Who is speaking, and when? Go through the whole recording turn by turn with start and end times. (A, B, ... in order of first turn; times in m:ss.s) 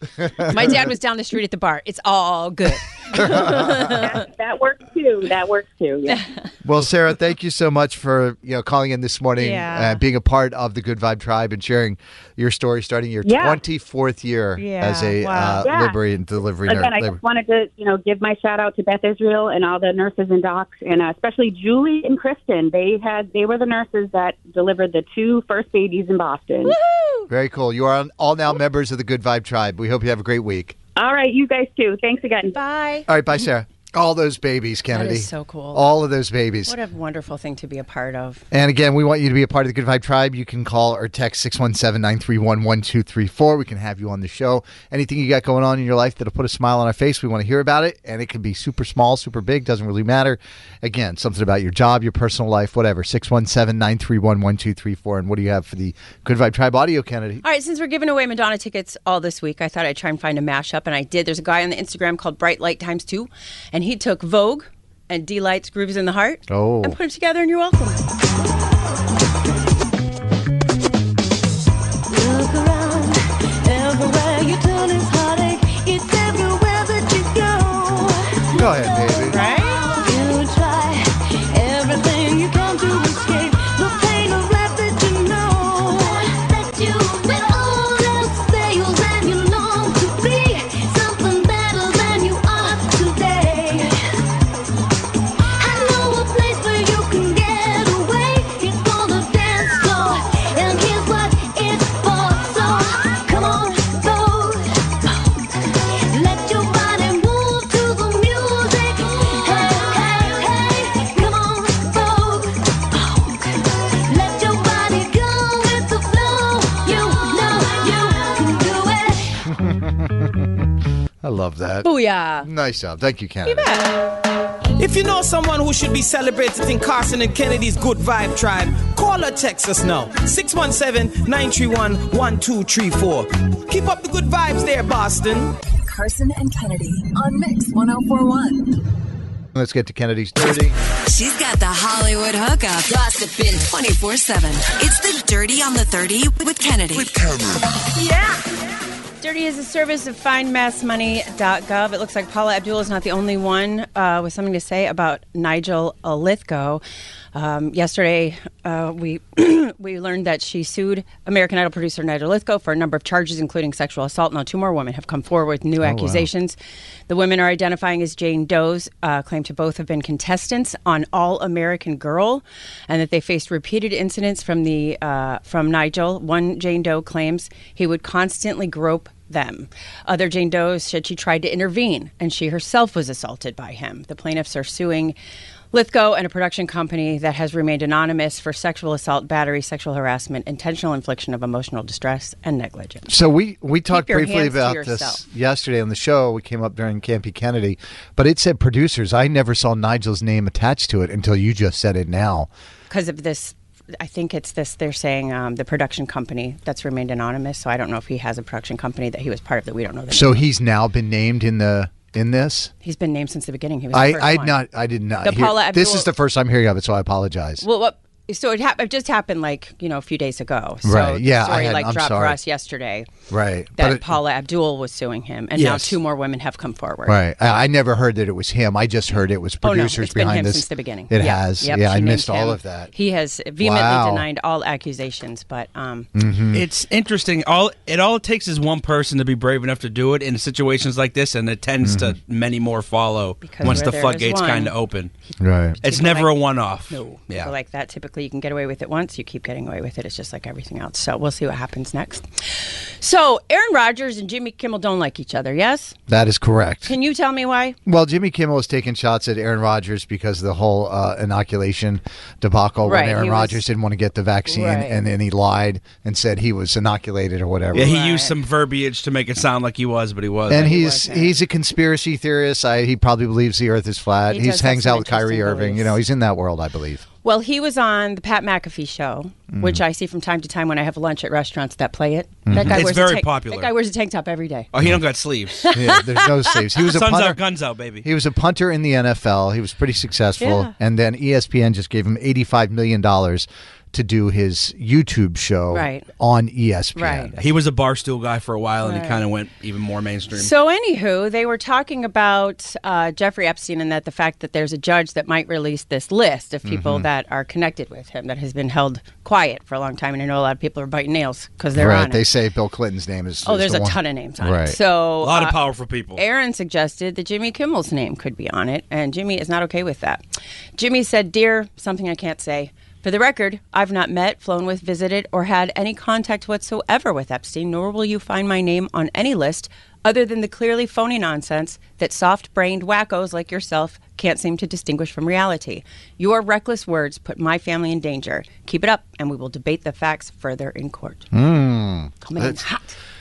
0:00.2-0:00.9 A
0:00.5-0:04.2 B
0:03.1-0:04.0 A
0:04.0-0:06.2 C
0:06.1-0:06.4 B
0:06.6-0:17.2 A
0:09.4-0:10.0 B
0:13.2-0:13.6 C
0:14.6-0:15.6 B
0:15.6-0:16.0 C
0:16.6-0:26.8 C
0:26.6-0:27.3 B
0:27.3-0:30.8 A
0:31.0-0:32.6 C
0:32.5-0:33.1 B
0:33.1-0:36.8 A
0:34.9-0:35.8 B
0:36.6-0:38.4 B
0:38.5-0:57.4 A
0:57.4-1:08.0 B
1:06.5-1:07.0 A
1:12.1-1:34.0 D
1:18.5-1:19.4 A
1:19.3-1:19.9 B
1:35.6-1:59.4 D
1:59.4-2:00.6 A
2:01.2-2:01.9 A
2:01.8-2:02.5 B
2:02.4-2:03.7 A
2:03.5-2:03.9 B
2:04.8-2:15.5 E
2:15.8-2:18.7 F
2:19.5-2:20.8 A
2:21.1-2:27.1 G
2:29.2-2:36.8 B
2:37.3-2:46.6 B
2:45.8-2:46.3 A
2:47.1-3:05.2 B
3:05.7-3:13.1 B
3:13.1-3:22.5 A
3:13.9-3:15.2 B
3:22.9-3:30.5 B
3:30.1-3:32.7 A
3:32.8-3:34.6 B
3:33.9-3:37.6 A
3:35.2-3:36.1 B
3:37.6-3:43.1 B
3:40.8-3:42.4 A
3:43.3-3:44.2 A
3:43.8-3:47.2 B
3:45.6-3:45.9 H
3:47.0-3:52.9 A
3:49.6-3:56.1 B
3:53.6-3:54.2 A
3:56.1-3:56.6 A
3:56.5-4:05.1 H
4:01.8-4:02.1 A
4:03.4-4:04.7 B
4:05.4-4:05.8 A
4:05.8-4:07.5 H
4:05.8-4:06.3 B
4:06.9-4:16.0 B
4:16.1-4:17.0 A
4:16.9-4:17.8 B
4:17.9-4:28.0 A
4:22.8-4:23.6 B
4:24.5-4:25.0 B
4:27.7-4:30.7 H
4:27.8-4:28.3 B
4:30.5-4:37.0 A
4:30.5-4:31.4 B
4:34.3-4:36.0 B
4:37.2-4:44.7 B
4:39.5-4:39.8 A
4:42.5-4:42.8 A
4:42.5-4:43.7 H
4:44.7-4:45.7 H
4:45.7-4:47.4 A
4:46.8-4:48.0 H
4:48.0-4:57.4 A
4:50.4-4:50.7 B
4:55.7-4:56.0 B
4:57.0-4:57.3 B
4:57.4-5:00.5 H
4:58.8-4:59.2 B
5:00.3-5:12.2 B
5:06.6-5:07.1 A
5:11.8-5:14.8 A
5:13.5-5:15.6 B
5:15.2-5:16.2 H
5:16.1-5:20.2 B
5:20.8-5:41.3 B
5:41.3-5:42.6 A
5:42.2-5:43.0 B